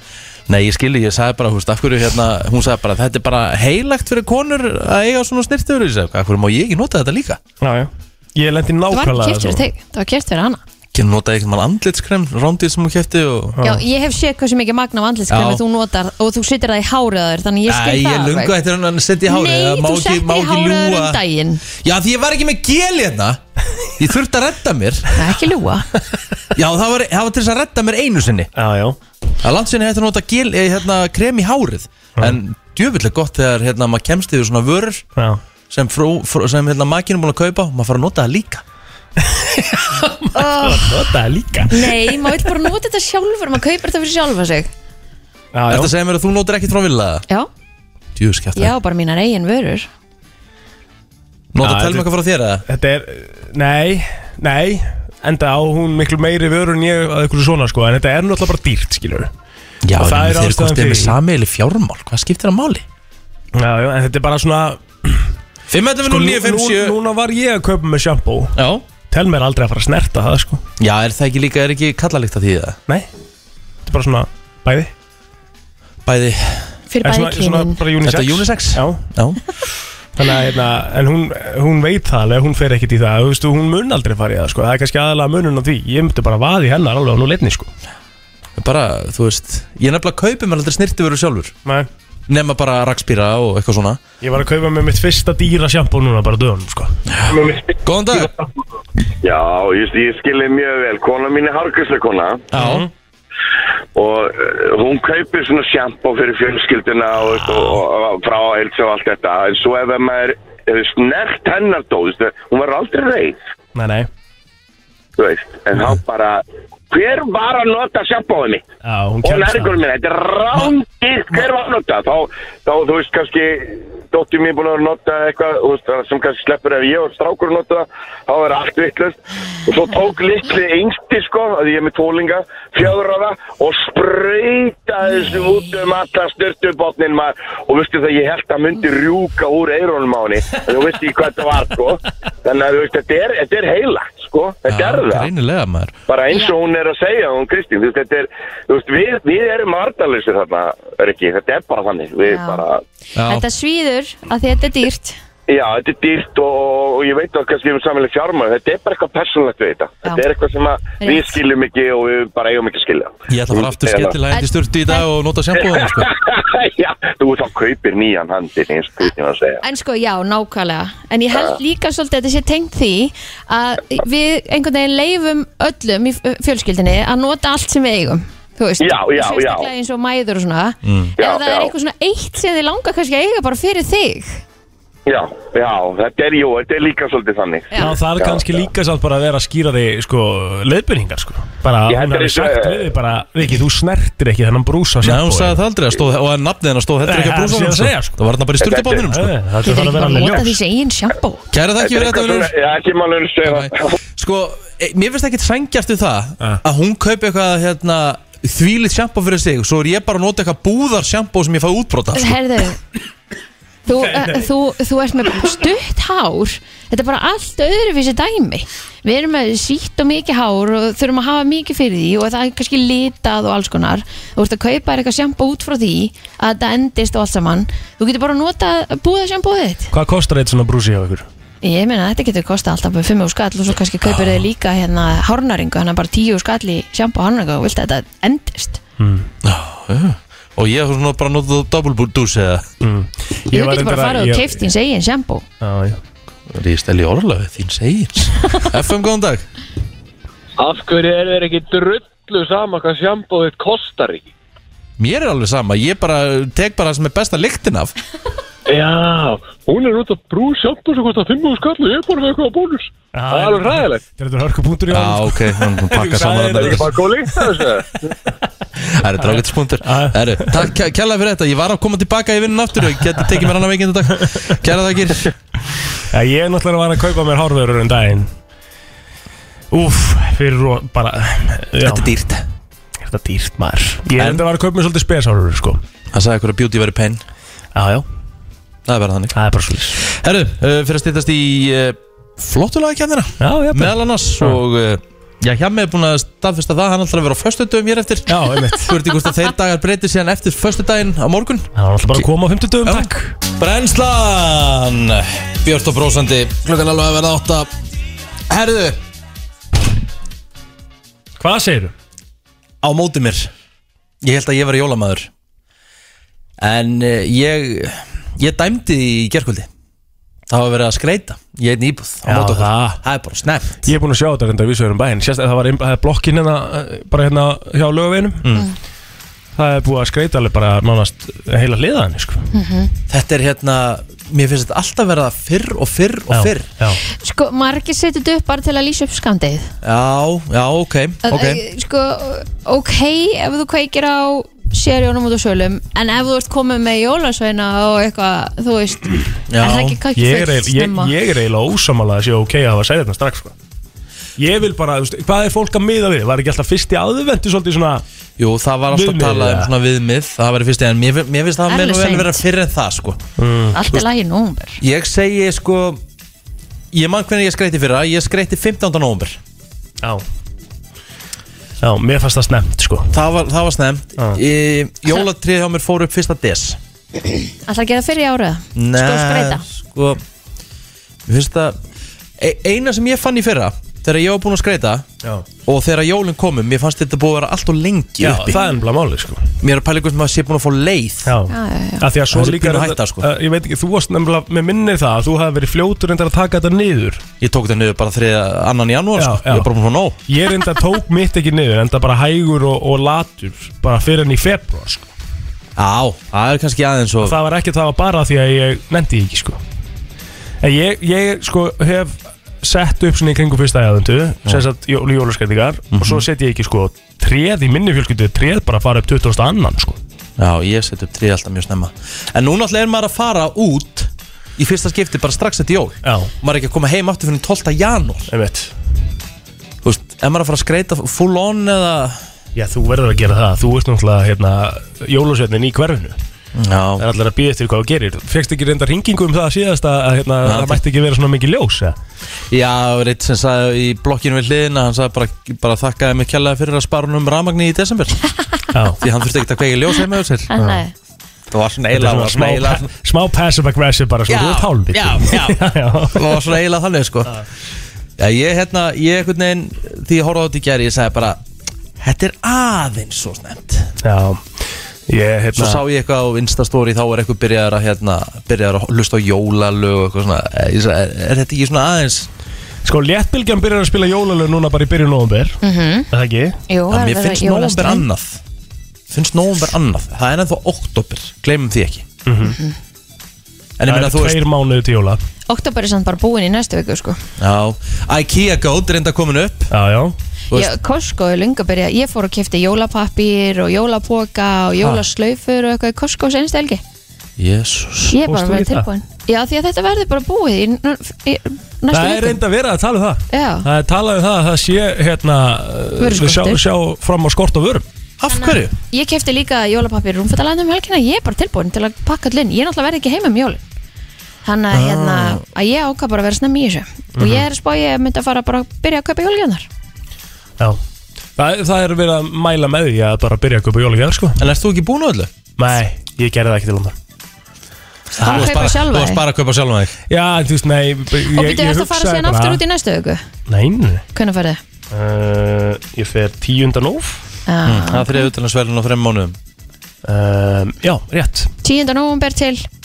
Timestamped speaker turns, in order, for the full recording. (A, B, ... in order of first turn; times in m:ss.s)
0:00.5-0:07.4 A
0:07.6-0:09.6 B
0:08.9-0:10.6 C
0:10.9-0:13.6 A
0:13.6-0:18.5 C
0:15.3-0:15.6 A
0:17.7-0:21.2 A
0:19.3-0:21.6 C
0:21.8-0:23.4 A
0:24.0-0:25.3 A
0:25.1-0:25.9 C
0:26.5-0:28.5 A
0:28.6-0:29.0 B
0:29.4-0:35.0 A
0:35.7-0:38.6 A
0:39.2-0:42.1 B
0:40.3-0:40.9 C
0:41.7-0:44.7 C
0:45.5-0:45.9 B
0:45.7-0:47.2 A
0:48.2-0:48.7 A
0:48.5-0:49.9 C
0:51.5-0:52.6 A
0:51.6-0:52.1 B
0:52.6-0:59.3 B
0:59.8-1:02.8 A
1:00.0-1:01.2 B
1:03.5-1:05.3 B
1:05.7-1:07.0 A
1:06.0-1:08.5 B
1:08.6-1:08.8 A
1:09.1-1:10.6 B
1:10.8-1:12.8 A
1:13.8-1:14.9 B
1:16.0-1:16.7 A
1:16.9-1:17.8 C
1:17.0-1:19.0 B
1:18.0-1:19.4 A
1:20.2-1:27.7 B
1:28.6-1:31.5 A
1:32.3-1:34.0 A
1:34.2-1:36.9 B
1:37.1-1:38.3 A
1:39.2-1:42.4 D
1:42.5-1:42.9 A
1:42.6-1:42.9 B
1:43.9-1:53.4 D
1:53.7-1:54.1 B
1:55.2-1:58.6 D
1:58.8-1:59.7 B
1:59.2-2:25.3 D
2:24.7-2:25.9 A
2:26.1-2:32.8 D
2:32.2-2:32.6 C
2:33.2-2:33.4 A
2:33.2-2:35.2 C
2:35.5-2:44.2 D
2:41.0-2:41.4 C
2:43.3-2:46.1 A
2:44.3-2:45.1 C
2:45.8-2:49.6 D
2:49.6-3:04.4 C
2:58.8-2:59.7 D
3:00.8-3:01.2 A
3:01.2-3:01.7 D
3:05.1-3:08.6 D
3:07.8-3:15.6 B
3:11.9-3:12.8 D
3:15.0-3:19.4 A
3:17.0-3:18.2 B
3:18.6-3:19.0 D
3:19.1-3:20.6 B
3:19.6-3:21.4 C
3:21.5-3:22.5 A
3:21.8-3:23.9 D
3:23.4-3:32.4 A
3:32.1-3:32.8 C
3:33.8-3:49.9 C
3:49.9-3:51.3 B
3:51.6-3:58.8 C
3:54.0-3:54.4 A
3:59.0-3:59.3 B
3:59.4-4:02.7 A
4:02.8-4:04.6 B
4:03.5-4:05.4 C
4:05.6-4:06.0 B
4:06.5-4:09.5 A
4:10.6-4:14.3 E
4:15.0-4:17.9 A
4:18.7-4:24.0 E
4:23.1-4:27.6 B
4:24.9-4:27.0 A
4:26.8-4:27.8 E
4:28.8-4:35.3 A
4:29.2-4:30.6 B
4:34.2-4:34.5 B
4:36.1-4:38.3 B
4:39.7-4:42.1 B
4:41.8-4:42.4 A
4:43.0-4:45.8 B
4:44.2-4:44.4 A
4:46.1-4:47.2 A
4:47.7-4:48.0 B
4:48.8-4:49.4 A
4:49.3-4:50.0 B
4:49.9-5:02.3 A
4:53.4-4:54.6 B
4:58.3-4:58.9 B
5:01.8-5:03.4 B
5:02.8-5:07.7 A
5:08.5-5:09.0 A
5:11.4-5:11.9 B
5:12.8-5:13.5 A
5:14.2-5:15.3 A
5:16.6-5:19.7 A
5:20.5-5:23.9 A
5:22.2-5:23.0 B
5:23.8-5:28.4 B
5:28.4-5:28.7 A
5:29.6-5:32.5 B
5:32.5-5:32.9 C
5:33.1-5:36.7 A
5:36.3-5:37.0 B
5:37.1-5:39.7 C
5:39.8-5:41.6 A
5:41.2-5:51.1 C
5:49.5-5:50.0 A
5:50.1-5:53.5 B
5:54.4-5:58.0 B
5:58.4-6:03.2 A
5:58.9-5:59.7 B
6:01.7-6:02.4 C
6:03.4-6:03.8 B
6:03.7-6:04.8 C
6:04.8-6:06.0 A
6:06.9-6:09.4 A
6:11.8-6:13.1 B
6:13.1-6:16.8 A
6:17.7-6:19.6 C
6:18.8-6:20.2 A
6:21.3-6:21.8 A
6:22.4-6:25.0 A
6:25.6-6:28.6 A
6:28.2-6:29.5 B
6:28.5-6:28.8 C
6:29.6-6:31.3 A
6:31.2-6:37.2 B
6:31.5-6:32.0 C
6:32.3-6:33.3 A
6:37.4-6:40.2 A
6:39.2-6:39.7 B
6:40.3-6:45.1 B
6:45.8-6:47.4 A
6:47.2-6:49.6 B
6:50.6-7:00.0 B
6:55.9-6:56.2 A
7:00.4-7:08.3 A
7:06.0-7:06.3 B
7:08.3-7:08.7 B
7:09.8-7:12.2 A
7:12.5-7:16.2 B
7:16.5-7:17.0 A
7:17.0-7:22.0 B
7:20.4-7:20.8 A
7:22.5-7:28.2 A
7:28.7-7:29.0 B
7:29.0-7:30.5 A
7:30.5-7:30.9 C
7:31.5-7:32.9 A
7:31.9-7:36.4 B
7:34.3-7:37.4 A
7:38.2-7:41.4 A
7:42.0-7:43.9 A
7:44.0-7:44.4 B
7:45.1-7:45.8 B
7:45.5-7:52.3 A
7:52.8-7:55.6 B
7:55.6-7:56.1 C
7:56.1-7:56.6 B
7:56.7-7:58.0 C
7:56.9-7:58.4 A
7:59.1-8:02.0 A
8:02.2-8:02.6 B
8:02.4-8:02.7 C
8:03.8-8:04.4 A
8:03.8-8:05.2 B
8:05.5-8:07.2 C
8:07.4-8:09.7 A
8:09.7-8:10.1 B
8:10.5-8:16.8 C
8:17.4-8:18.2 A
8:18.1-8:22.4 C
8:18.2-8:18.9 B
8:21.9-8:27.8 B
8:23.3-8:23.7 C
8:26.0-8:26.6 C
8:28.2-8:28.7 A
8:28.3-8:33.6 C
8:34.4-8:39.7 C
8:34.7-8:35.4 A
8:37.2-8:37.4 B
8:41.4-8:44.4 B
8:44.4-8:45.3 A
8:45.6-8:46.9 B
8:48.2-8:49.2 C
8:48.2-8:50.0 A
8:48.2-8:48.6 B
8:50.1-8:52.6 B
8:51.3-8:53.2 C
8:53.5-8:54.0 B
8:54.1-8:54.6 C
8:54.9-8:57.2 B
8:57.5-8:58.3 C
8:57.6-8:59.4 A
9:00.0-9:01.5 B
9:01.6-9:02.6 C